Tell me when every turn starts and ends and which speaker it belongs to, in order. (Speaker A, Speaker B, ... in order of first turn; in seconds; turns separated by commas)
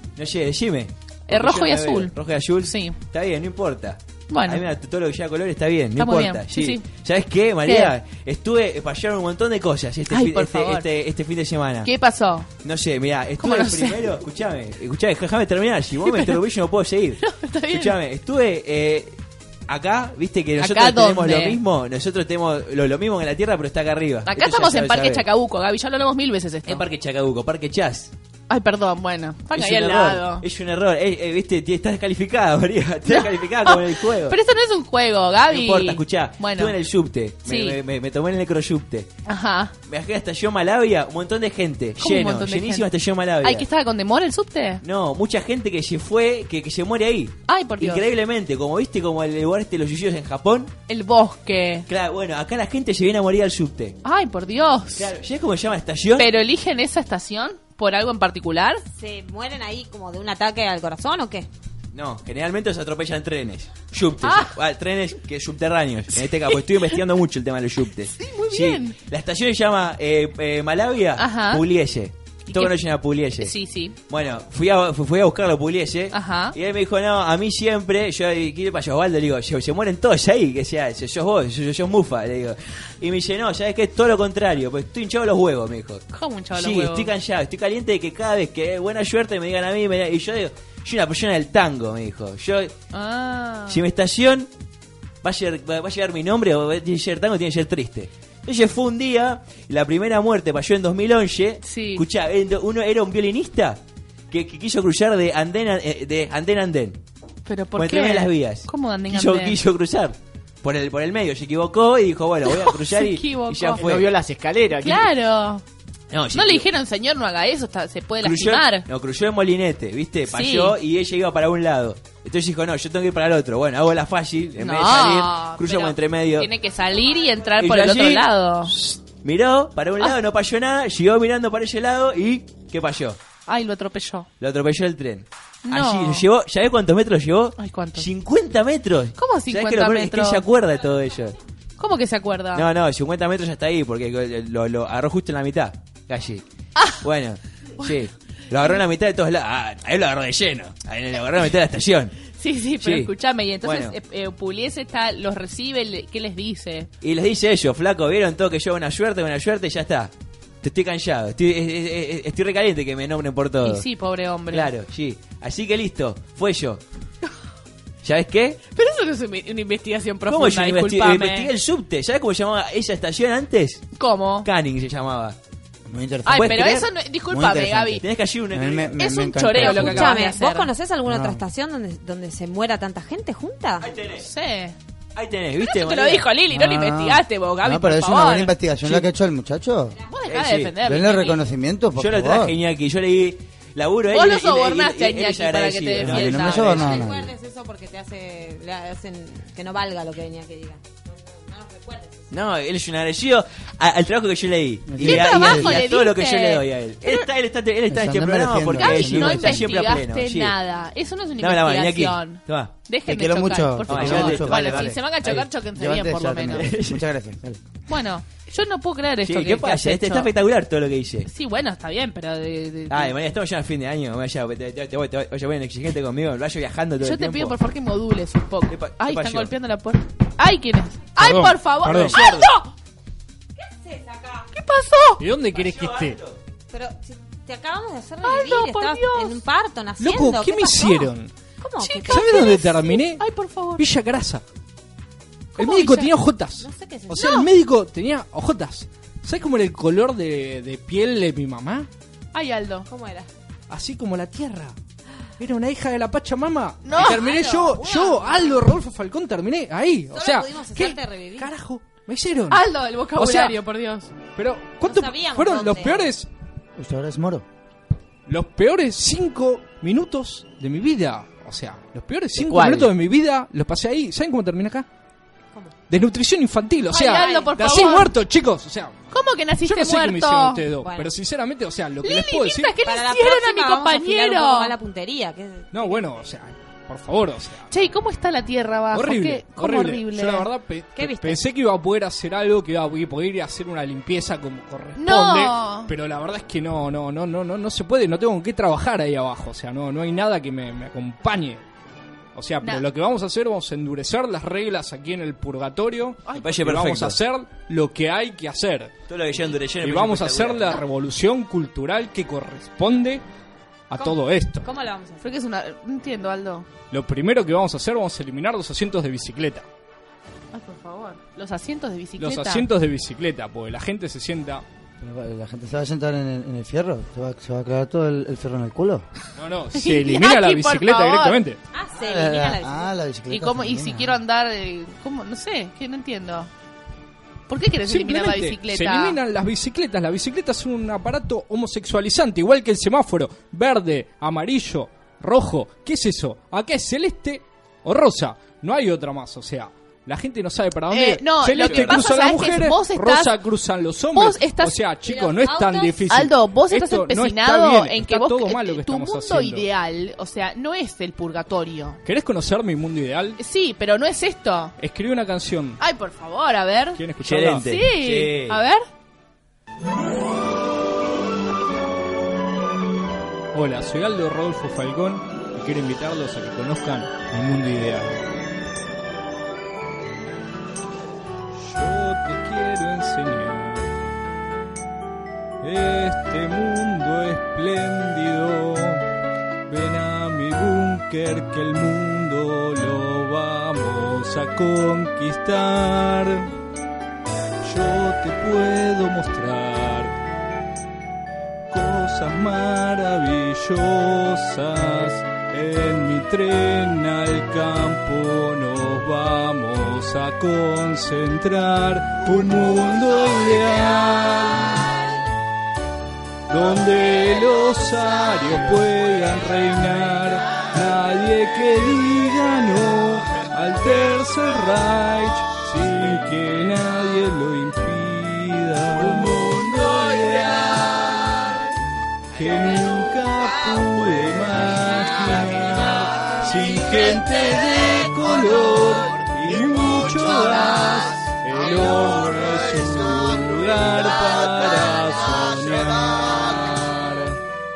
Speaker A: 0.2-11.9, Speaker B: 1.3-3.0, Speaker B: 4.3-4.6, Speaker B: 6.0-6.8, Speaker B: 7.6-7.9, Speaker B: 10.1-10.9, Speaker B: 11.8-12.5, Speaker A: 12.6-19.1, Speaker B: 13.4-14.0, Speaker B: 16.0-16.4, Speaker B: 17.2-17.9, Speaker A: 19.7-25.2, Speaker B: 20.6-21.6, Speaker B: 24.2-26.8, Speaker A: 26.6-28.1, Speaker B: 28.5-30.4, Speaker A: 29.5-34.4, Speaker B: 33.1-36.8, Speaker A: 35.5-39.1, Speaker B: 37.4-37.8, Speaker B: 39.3-39.7, Speaker A: 39.9-43.6, Speaker B: 42.0-42.9, Speaker B: 43.4-44.8, Speaker A: 44.8-50.7, Speaker B: 47.5-48.0, Speaker B: 50.9-51.9, Speaker A: 51.9-54.0, Speaker B: 54.0-55.1, Speaker A: 55.0-56.3, Speaker B: 56.1-58.8, Speaker C: 58.9-61.5, Speaker A: 61.9-73.5, Speaker B: 64.2-64.6, Speaker B: 66.1-67.0, Speaker B: 68.1-69.0, Speaker B: 71.2-71.6, Speaker B: 72.5-73.9, Speaker A: 74.1-92.7, Speaker B: 76.1-76.5, Speaker B: 86.1-87.1, Speaker B: 92.9-93.8, Speaker A: 93.7-94.5, Speaker A: 95.2-107.0, Speaker B: 101.6-102.0, Speaker B: 107.5-109.6, Speaker A: 107.7-114.1, Speaker B: 112.4-113.9, Speaker D: 113.8-115.1, Speaker B: 114.8-115.6, Speaker A: 116.1-116.7, Speaker B: 116.3-118.9, Speaker A: 118.2-126.5, Speaker B: 120.3-120.8, Speaker B: 124.6-128.8, Speaker A: 127.6-133.2, Speaker B: 133.5-134.3, Speaker A: 134.4-141.3, Speaker B: 135.7-136.3, Speaker B: 137.6-138.1, Speaker B: 139.2-140.4, Speaker B: 141.8-142.7, Speaker A: 142.5-146.4, Speaker B: 146.8-147.0, Speaker A: 147.0-152.1, Speaker B: 152.3-156.9, Speaker A: 152.8-153.1, Speaker A: 153.6-153.9, Speaker A: 157.0-160.1, Speaker A: 160.6-163.8, Speaker B: 163.6-164.7, Speaker A: 164.5-166.8, Speaker A: 168.0-168.6, Speaker B: 168.7-171.5, Speaker A: 170.3-173.8, Speaker B: 174.0-174.5, Speaker A: 174.4-175.3, Speaker E: 175.9-176.4, Speaker B: 176.2-178.0, Speaker A: 176.3-176.9, Speaker E: 177.3-180.1, Speaker A: 178.0-179.1, Speaker B: 179.0-180.7, Speaker C: 179.6-183.9, Speaker E: 181.0-181.4, Speaker A: 183.8-184.2, Speaker B: 184.2-184.8, Speaker A: 185.1-186.3, Speaker B: 185.6-188.5, Speaker E: 186.5-190.0, Speaker B: 190.1-191.5, Speaker A: 190.3-190.8, Speaker E: 190.8-192.5, Speaker A: 191.9-197.1, Speaker B: 194.1-196.9, Speaker E: 196.0-197.3, Speaker C: 196.4-202.3, Speaker A: 202.3-210.6, Speaker E: 204.8-205.8, Speaker B: 205.0-207.3, Speaker E: 207.9-209.7, Speaker B: 208.7-216.7, Speaker A: 211.4-212.7, Speaker E: 213.1-215.0, Speaker A: 213.8-215.5, Speaker E: 215.7-217.6, Speaker A: 216.5-217.1, Speaker B: 217.9-220.3, Speaker A: 219.2-221.3, Speaker B: 221.2-223.2, Speaker A: 222.9-227.6, Speaker B: 227.0-232.7, Speaker A: 228.7-229.5, Speaker F: 231.2-232.2, Speaker A: 232.1-232.5, Speaker C: 232.2-232.5, Speaker C: 233.6-234.5, Speaker B: 234.5-235.2, Speaker F: 235.2-236.2, Speaker A: 235.5-236.4, Speaker C: 236.7-242.7, Speaker B: 238.2-239.4, Speaker F: 240.0-241.3, Speaker B: 241.8-243.8, Speaker F: 242.0-243.2, Speaker F: 243.8-244.4, Speaker B: 245.6-246.1, Speaker F: 245.6-251.9, Speaker C: 246.6-247.4, Speaker B: 247.1-247.5, Speaker B: 252.3-252.8, Speaker C: 252.9-253.3, Speaker F: 253.7-254.8, Speaker F: 255.4-263.6, Speaker B: 256.8-257.3, Speaker C: 256.9-258.6, Speaker C: 260.1-261.5, Speaker B: 262.5-264.1, Speaker F: 264.4-266.3, Speaker C: 264.8-266.1, Speaker E: 266.8-267.4, Speaker F: 268.3-274.9, Speaker D: 272.3-272.9, Speaker F: 275.9-278.9, Speaker B: 276.9-278.1, Speaker C: 277.0-277.9, Speaker B: 279.1-280.6, Speaker F: 279.6-282.8, Speaker C: 280.8-281.1, Speaker B: 282.0-284.7, Speaker C: 282.8-285.9, Speaker F: 285.7-287.7, Speaker B: 287.7-290.5, Speaker F: 288.9-301.6, Speaker C: 290.9-291.4, Speaker B: 295.0-295.9, Speaker F: 302.3-308.9, Speaker A: 306.4-307.2, Speaker A: 309.1-310.8, Speaker F: 309.8-313.2, Speaker F: 313.9-314.7, Speaker C: 314.6-315.3, Speaker B: 315.2-316.7, Speaker F: 316.9-319.6, Speaker B: 320.5-322.7, Speaker F: 322.2-324.6, Speaker E: 325.0-329.0, Speaker F: 329.4-331.6, Speaker B: 329.7-331.4, Speaker C: 331.7-332.9, Speaker E: 332.0-334.1, Speaker B: 333.3-336.5, Speaker B: 337.5-339.2, Speaker F: 337.9-359.6, Speaker B: 350.9-353.3, Speaker A: 351.5-352.2, Speaker B: 354.1-354.8, Speaker C: 355.0-356.1, Speaker B: 356.1-362.0, Speaker F: 362.0-363.4, Speaker B: 363.4-364.7, Speaker F: 364.8-365.8, Speaker B: 365.8-367.0, Speaker F: 367.0-367.7, Speaker A: 367.2-368.6, Speaker B: 367.6-368.8, Speaker F: 373.5-378.1, Speaker F: 381.6-383.9, Speaker F: 385.6-389.0, Speaker F: 389.7-396.5, Speaker F: 397.6-400.1, Speaker F: 401.7-414.9, Speaker C: 414.5-415.0, Speaker F: 416.5-431.6, Speaker F: 432.3-447.4